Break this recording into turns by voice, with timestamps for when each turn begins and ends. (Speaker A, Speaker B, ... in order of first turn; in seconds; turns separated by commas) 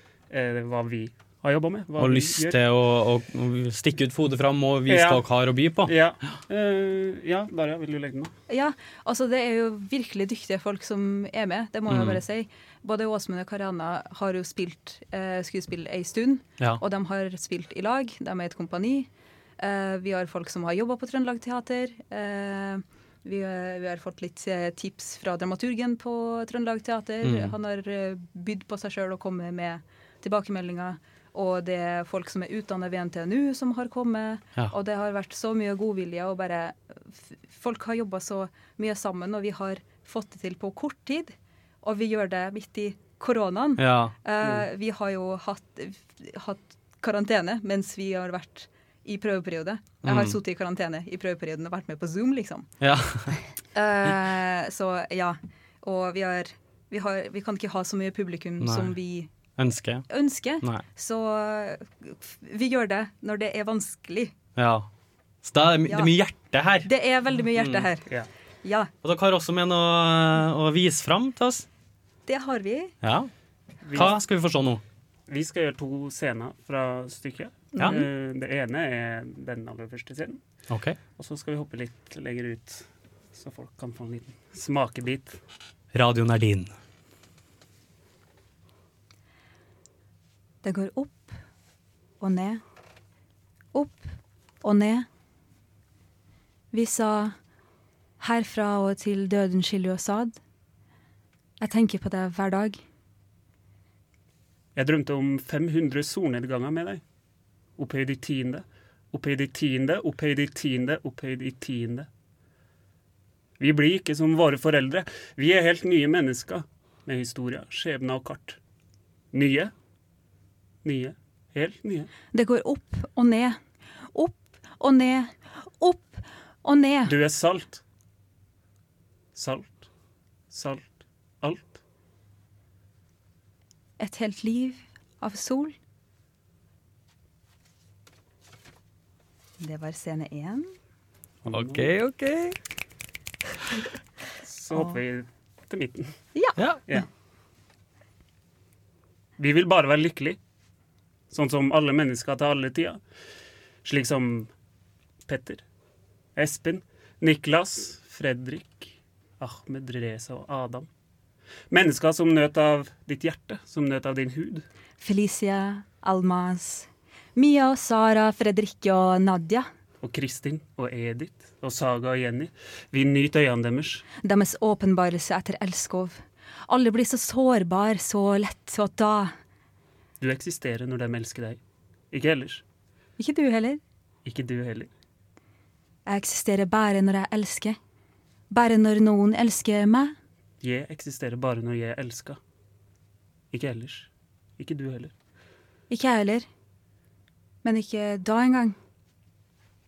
Speaker A: 0.3-2.6, Speaker B: 2.0-5.9, Speaker A: 4.9-5.2, Speaker A: 5.8-8.3, Speaker C: 8.5-52.7, Speaker B: 11.9-12.2, Speaker B: 27.2-27.5, Speaker B: 43.8-44.1, Speaker B: 50.0-50.4, Speaker B: 52.8-53.4, Speaker C: 53.7-59.3, Speaker B: 58.6-59.0, Speaker B: 59.6-60.0, Speaker C: 60.1-64.3, Speaker B: 64.6-64.9, Speaker B: 65.4-66.9, Speaker C: 65.8-66.1, Speaker C: 66.8-68.0, Speaker B: 67.5-67.9, Speaker C: 68.6-68.9, Speaker B: 69.0-71.7, Speaker C: 72.2-72.9, Speaker B: 73.0-73.3, Speaker A: 73.8-74.2, Speaker B: 73.9-74.8, Speaker A: 75.3-80.4, Speaker B: 77.8-78.0, Speaker B: 80.7-81.0, Speaker A: 81.2-85.4, Speaker B: 85.9-86.7, Speaker C: 90.6-91.4, Speaker C: 92.2-92.6, Speaker C: 93.7-94.1, Speaker C: 94.6-95.1, Speaker C: 96.7-97.3, Speaker C: 98.2-100.4, Speaker C: 101.6-102.8, Speaker A: 104.7-107.0, Speaker A: 107.8-112.1, Speaker A: 113.6-118.6, Speaker A: 119.3-119.7, Speaker A: 120.8-122.1, Speaker C: 122.3-123.6, Speaker C: 124.1-127.2, Speaker A: 127.1-127.8, Speaker A: 129.3-129.8, Speaker A: 130.5-130.9, Speaker A: 131.4-131.7, Speaker C: 134.0-135.7, Speaker C: 139.6-140.7, Speaker A: 141.4-141.9, Speaker B: 141.5-142.5, Speaker A: 144.5-146.1, Speaker C: 144.7-145.0, Speaker C: 146.3-147.0, Speaker A: 149.4-150.4, Speaker A: 151.3-153.0, Speaker A: 153.8-154.5, Speaker A: 155.3-155.6, Speaker A: 156.3-160.9, Speaker A: 161.7-164.6, Speaker C: 165.0-169.7, Speaker A: 170.0-174.0, Speaker C: 174.2-179.3, Speaker A: 180.2-181.6, Speaker A: 182.1-182.6, Speaker C: 183.2-183.8, Speaker A: 184.2-184.9, Speaker C: 186.1-187.8, Speaker C: 188.5-190.2, Speaker A: 190.6-192.4, Speaker A: 193.5-194.1, Speaker A: 194.6-195.1, Speaker C: 195.9-196.5, Speaker C: 197.6-198.8